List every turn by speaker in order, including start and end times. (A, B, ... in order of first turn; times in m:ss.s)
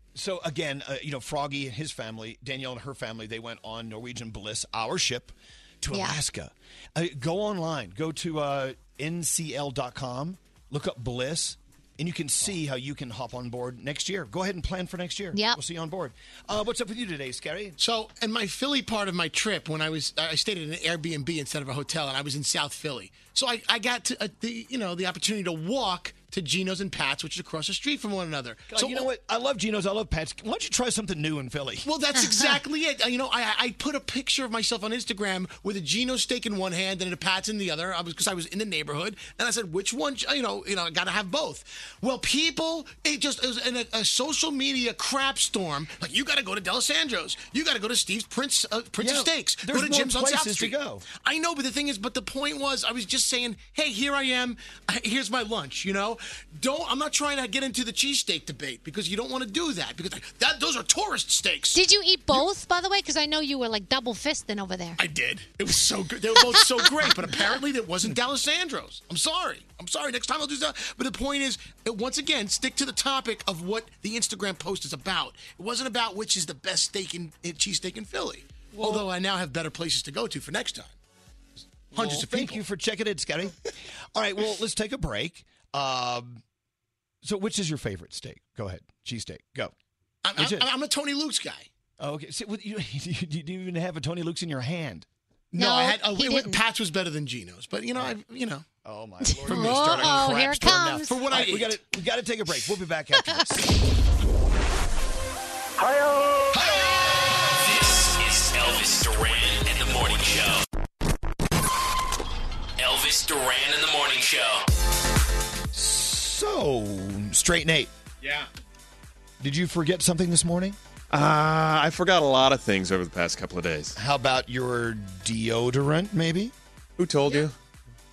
0:00.1-0:17.8 A
0:05.9-0:06.2 B
0:15.3-0:15.6 B
0:17.8-0:29.1 C
0:28.7-0:31.9 A
0:31.8-1:01.8 C
0:49.0-0:51.0 A
1:01.7-1:05.0 B
1:05.0-1:21.0 C
1:06.4-1:07.4 B
1:21.9-1:22.6 C
1:21.9-1:23.6 A
1:24.1-1:26.4 A
1:27.2-1:29.7 A
1:30.2-1:31.7 C
1:30.4-1:30.7 A
1:32.0-1:35.1 A
1:35.5-1:38.6 C
1:35.5-1:36.6 B
1:38.8-1:43.6 A
1:39.2-1:41.5 B
1:41.1-1:41.8 C
1:43.2-1:43.4 B
1:47.6-1:50.6 D
1:52.8-1:54.6 D
1:55.7-1:57.9 A
1:59.4-2:00.8 A
2:01.1-2:04.0 E
2:04.0-2:06.5 A
2:07.0-2:07.5 E